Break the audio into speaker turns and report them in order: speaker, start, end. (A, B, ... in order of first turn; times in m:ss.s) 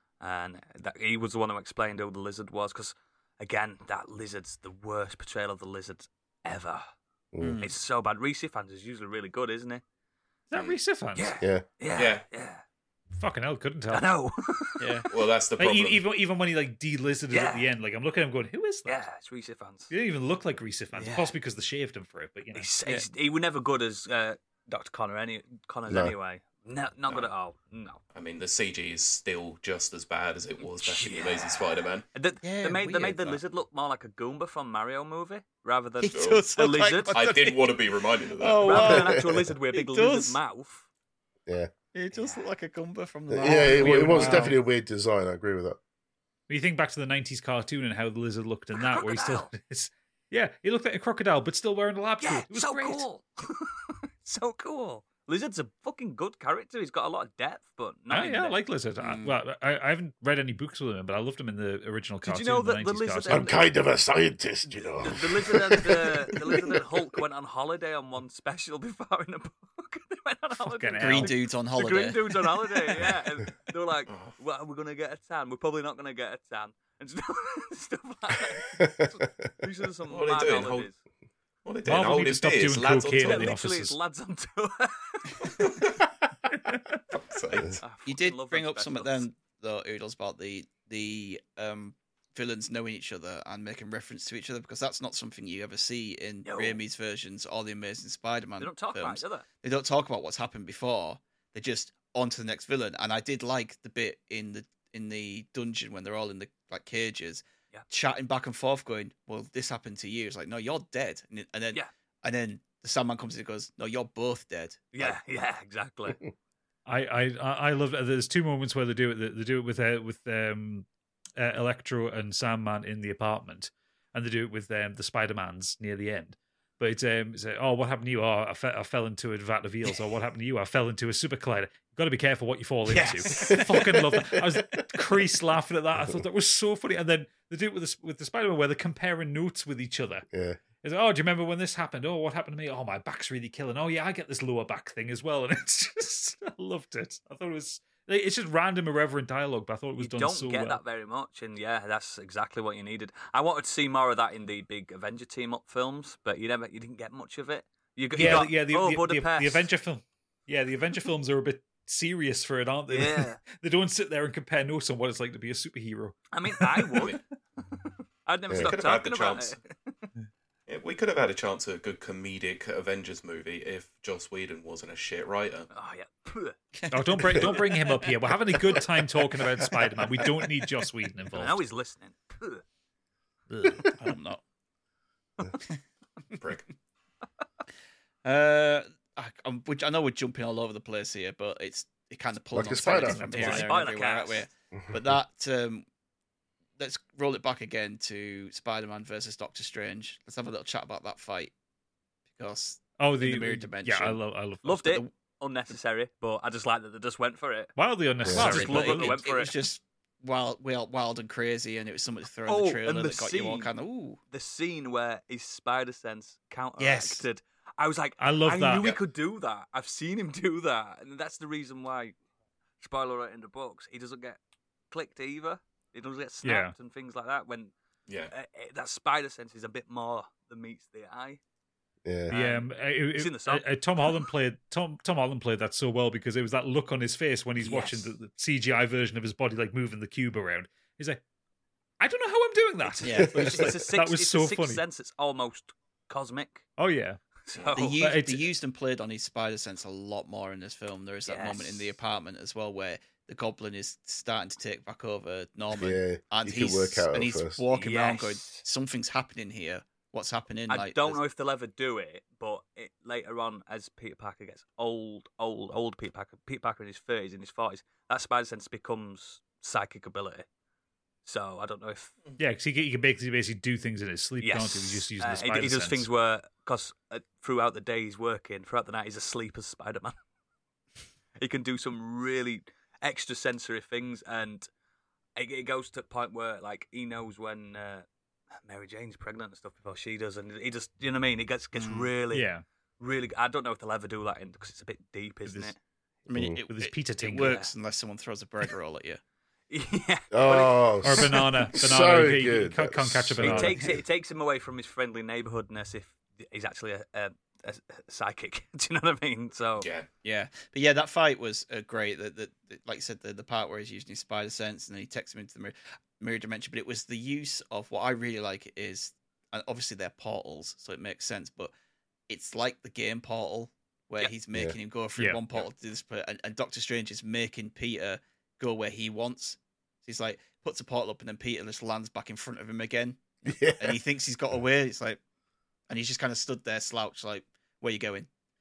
0:00.2-0:06.8 A
0:07.3-0:07.6 B
0:07.4-0:07.7 C
0:07.6-0:09.8 A
0:10.5-0:11.4 D
0:11.1-0:12.6 A
0:11.9-0:12.2 E
0:13.2-0:14.1 D
0:13.9-0:15.1 A
0:14.8-0:15.1 C
0:15.1-0:16.0 E
0:15.6-0:19.0 D
0:17.3-0:17.7 A
0:18.8-0:19.9 A
0:19.9-0:22.7 D
0:20.9-0:21.3 A
0:22.5-0:28.0 A
0:25.9-0:26.1 B
0:28.1-0:32.0 E
0:30.8-0:37.2 A
0:32.4-0:33.4 C
0:36.0-0:37.7 C
0:36.1-0:36.4 E
0:37.1-0:38.8 E
0:38.4-0:40.4 C
0:38.6-0:40.8 A
0:38.8-0:39.4 B
0:41.5-0:41.7 B
0:41.9-0:44.6 C
0:42.1-0:42.4 A
0:43.3-0:45.8 B
0:43.6-0:44.5 D
0:46.5-0:53.0 D
0:48.7-0:49.5 A
0:52.2-0:58.6 A
0:58.1-1:03.6 D
0:59.0-0:59.3 C
1:02.2-1:03.6 A
1:03.3-1:06.8 B
1:05.0-1:21.0 A
1:10.6-1:11.4 D
1:11.0-1:13.0 C
1:14.1-1:14.4 E
1:18.8-1:19.4 B
1:20.1-1:20.9 E
1:21.6-1:23.5 E
1:21.8-1:24.0 D
1:23.2-1:25.7 A
1:25.6-1:25.9 E
1:26.5-1:27.0 D
1:27.1-1:27.8 E
1:27.8-1:29.2 A
1:28.0-1:55.2 C
1:36.4-1:36.8 A
1:38.6-1:39.4 A
1:54.9-1:56.2 A
1:56.8-2:20.2 D
2:12.9-2:13.6 A
2:12.9-2:13.5 C
2:20.3-2:20.6 B
2:20.8-2:30.8 D
2:30.0-2:39.7 A
2:38.1-2:47.1 D
2:42.9-2:43.4 A
2:46.3-2:47.2 A
2:48.2-2:50.1 A
2:48.6-2:49.6 E
2:50.7-2:55.7 E
2:55.7-2:56.6 A
2:56.8-3:00.6 C
2:56.9-3:01.6 D
3:01.3-3:02.6 A
3:03.5-3:03.9 D
3:03.9-3:04.4 C
3:06.4-3:06.7 E
3:08.2-3:15.8 C
3:12.5-3:13.5 B
3:12.9-3:13.7 D
3:13.4-3:14.4 A
3:14.7-3:15.2 B
3:16.8-3:21.5 C
3:22.3-3:24.2 C
3:23.0-3:24.9 D
3:24.6-3:27.7 A
3:27.8-3:29.2 D
3:28.2-3:28.6 B
3:28.3-3:29.6 A
3:28.3-3:34.2 C
3:32.4-3:33.7 A
3:34.3-3:42.1 A
3:36.8-3:37.2 C
3:38.2-3:39.0 D
3:42.8-3:44.4 A
3:44.9-3:47.7 A
3:46.4-3:46.7 D
3:48.1-3:48.3 E
3:48.3-3:51.4 A
3:52.0-3:52.3 B
3:52.3-4:01.2 D
3:52.3-3:54.2 A
3:57.6-3:58.0 A
4:02.0-4:04.8 D
4:03.0-4:03.7 C
4:03.2-4:03.6 B
4:03.4-4:06.6 A
4:06.8-4:07.2 D
4:07.4-4:08.0 A
4:07.7-4:21.2 C
4:08.0-4:08.5 D
4:11.2-4:11.9 A
4:15.8-4:17.6 B
4:17.7-4:18.6 A
4:20.7-4:30.4 A
4:31.2-4:32.1 A
4:32.4-4:36.1 D
4:34.4-4:40.1 A
4:41.4-4:44.7 A
4:45.4-4:48.0 A
4:48.6-4:52.5 A
4:51.8-4:52.1 C
4:52.3-4:52.6 D
4:53.0-4:55.8 A
4:55.4-4:55.7 D
4:56.3-4:59.2 C
4:56.3-4:56.6 B
4:56.7-4:57.6 D
4:57.4-4:57.7 A
4:59.7-5:00.9 A
5:00.3-5:04.0 B
5:01.0-5:03.8 D
5:03.4-5:09.9 A
5:09.8-5:10.1 E
5:10.2-5:21.7 C
5:22.3-5:35.2 C
5:25.2-5:25.4 D
5:33.4-5:34.0 B
5:35.9-5:38.3 C